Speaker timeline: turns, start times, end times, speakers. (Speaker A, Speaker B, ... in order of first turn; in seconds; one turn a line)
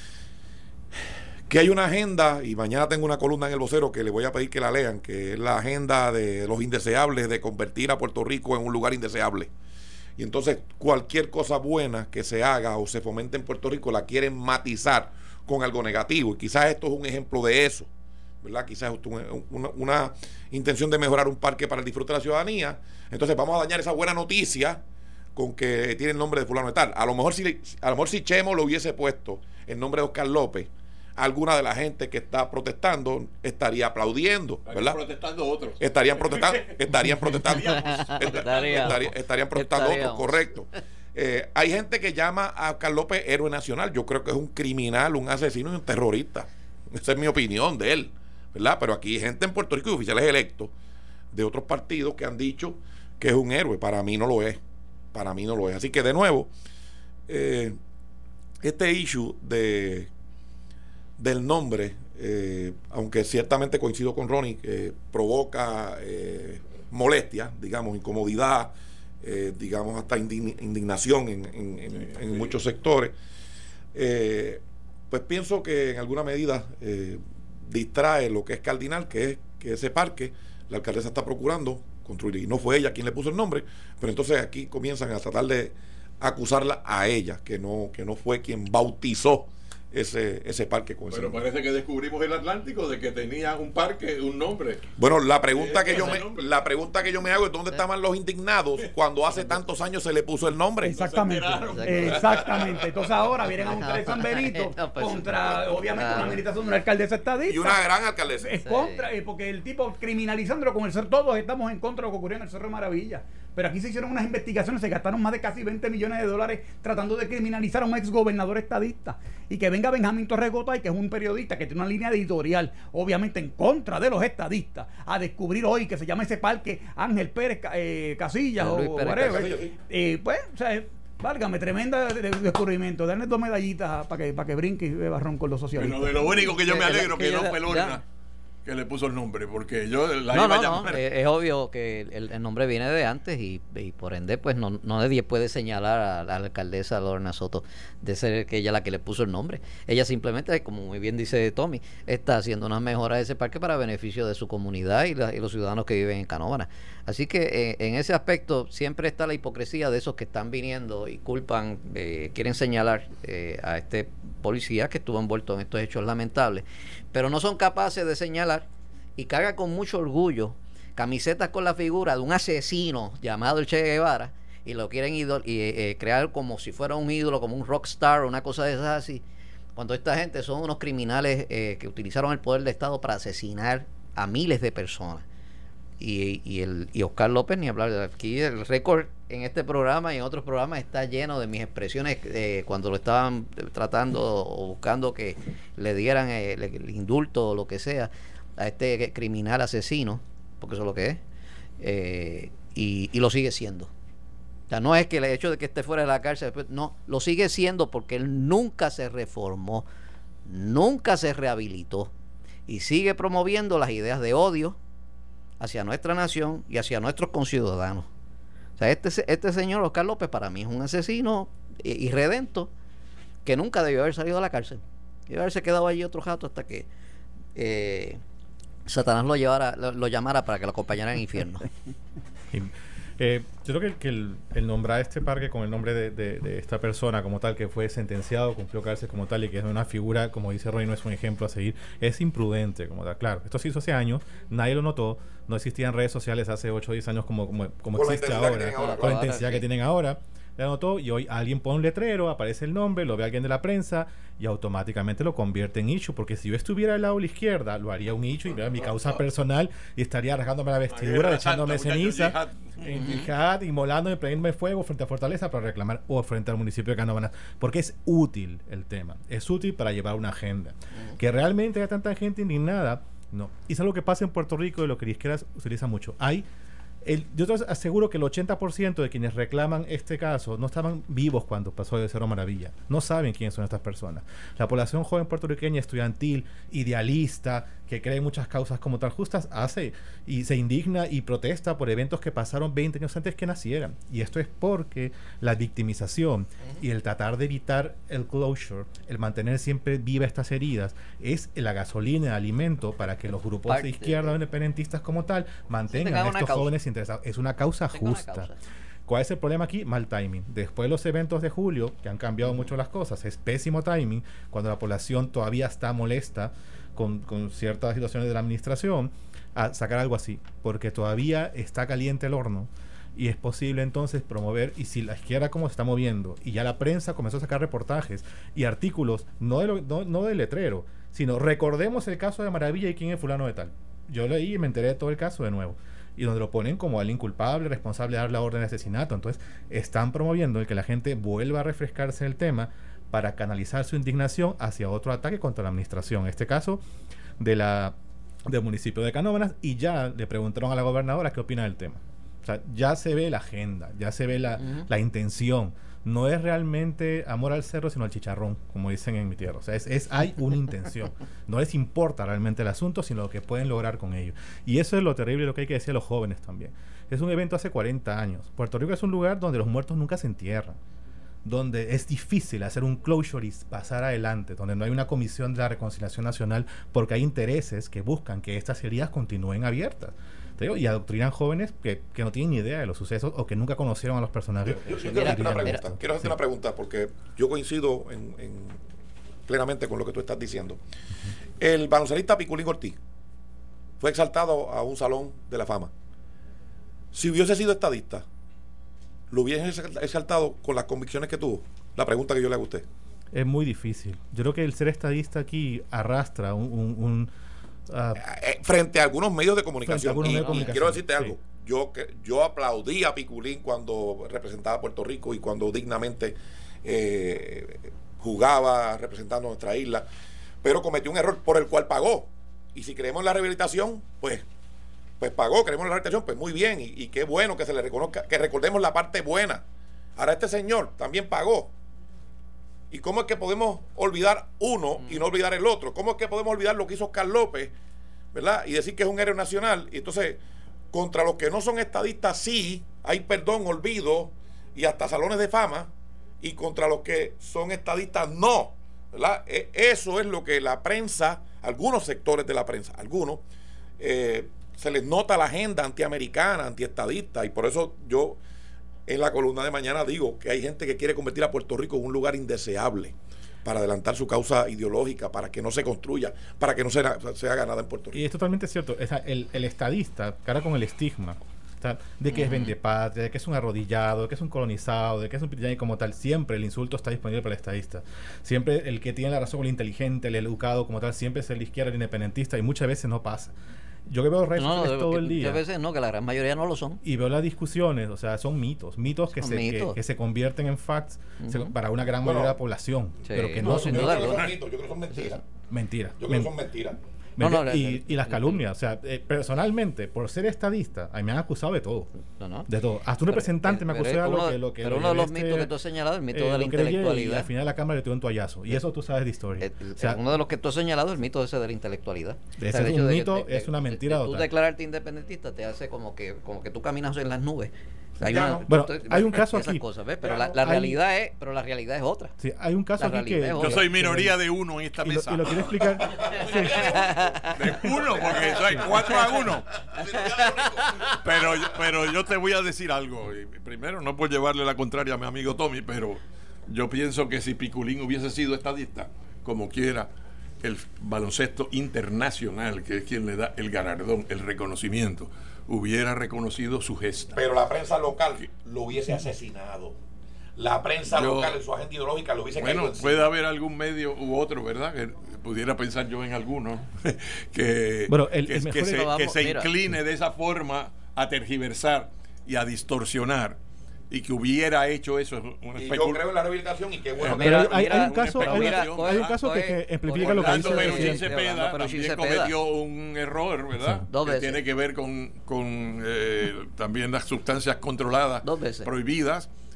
Speaker A: 1.5-9.5
Speaker A: 10.2-17.9
Speaker A: 18.4-24.8
Speaker A: 25.3-35.0
Speaker B: 34.6-36.8
Speaker A: 35.8-50.7
Speaker B: 37.3-39.1
Speaker C: 38.1-39.0
Speaker C: 39.5-40.5
Speaker A: 51.3-54.6
Speaker A: 55.1-56.5
Speaker A: 57.3-57.8
Speaker A: 58.6-60.1
Speaker A: 61.2-73.1
Speaker B: 72.0-72.5
Speaker A: 73.9-91.4
Speaker B: 91.1-94.8
Speaker A: 95.0-101.0
Speaker B: 95.5-96.5
Speaker D: 100.8-136.4
Speaker B: 100.9-103.0
Speaker C: 101.7-102.2
Speaker C: 103.6-106.4
Speaker A: 107.5-108.6
Speaker C: 108.6-109.1
Speaker C: 128.6-129.5
Speaker A: 129.1-129.8
Speaker B: 135.7-138.0
Speaker C: 136.5-138.0
Speaker B: 138.6-141.0
Speaker C: 140.3-179.2
Speaker C: 179.8-185.2
Speaker C: 186.0-201.2
Speaker C: 201.8-203.9
Speaker C: 204.7-209.8
Speaker C: 210.5-212.1
Speaker C: 212.7-214.8
Speaker C: 215.6-218.1
Speaker C: 218.8-222.7
Speaker C: 223.4-226.9
Speaker C: 227.6-228.2
Speaker C: 228.8-231.7
Speaker E: 232.5-276.4
Speaker A: 247.9-249.3
Speaker C: 248.8-249.7
Speaker B: 260.9-263.0
Speaker C: 262.9-263.3
Speaker E: 277.0-308.5
Speaker C: 303.7-304.4
Speaker C: 305.9-306.7
Speaker C: 307.9-308.6
Speaker E: 309.1-346.8
Speaker E: 347.4-347.9
Speaker E: 348.4-370.8
Speaker C: 354.6-354.9
Speaker E: 371.4-386.4
Speaker A: 384.6-388.8
Speaker C: 384.9-385.8
Speaker A: 389.5-390.8
Speaker A: 391.6-393.0
Speaker A: 394.0-395.9
Speaker A: 397.1-398.2
Speaker A: 399.3-402.9
Speaker E: 403.3-407.3
Speaker E: 407.9-408.2
Speaker A: 408.2-420.1
Speaker E: 409.9-411.3
Speaker A: 420.6-424.4
Speaker A: 425.2-429.6
Speaker A: 430.2-431.7
Speaker A: 432.9-437.7
Speaker A: 438.3-440.4
Speaker A: 440.9-453.4
Speaker A: 454.0-458.4
Speaker A: 459.1-468.2
Speaker E: 468.1-483.5
Speaker C: 472.3-472.7
Speaker E: 484.1-485.6
Speaker C: 484.5-487.0
Speaker E: 487.0-494.4
Speaker C: 489.3-490.0
Speaker C: 491.4-491.7
Speaker A: 492.2-492.6
Speaker C: 493.2-494.5
Speaker A: 493.6-495.4
Speaker E: 495.7-496.5
Speaker A: 496.2-497.0
Speaker E: 497.4-502.1
Speaker C: 497.4-498.6
Speaker C: 502.4-502.7
Speaker E: 502.7-505.7
Speaker C: 503.3-507.5
Speaker E: 506.3-510.2
Speaker C: 509.6-522.3
Speaker E: 512.6-514.5
Speaker E: 518.2-521.0
Speaker A: 518.3-518.6
Speaker E: 522.4-524.4
Speaker C: 523.0-523.9
Speaker B: 523.6-525.9
Speaker E: 525.0-526.8
Speaker A: 526.0-531.8
Speaker C: 526.6-527.7
Speaker B: 527.5-529.7
Speaker C: 529.1-529.4
Speaker C: 530.0-531.1
Speaker B: 531.2-540.1
Speaker B: 540.6-547.4
Speaker A: 547.3-550.0
Speaker A: 550.6-553.3
Speaker B: 551.1-551.6
Speaker B: 552.6-563.6
Speaker E: 558.1-559.3
Speaker C: 559.0-559.7
Speaker B: 564.1-566.3
Speaker A: 565.8-567.8
Speaker B: 567.2-569.5
Speaker C: 567.3-572.5
Speaker E: 567.4-571.4
Speaker B: 570.1-579.5
Speaker E: 573.8-574.1
Speaker C: 574.1-574.6
Speaker C: 578.4-578.9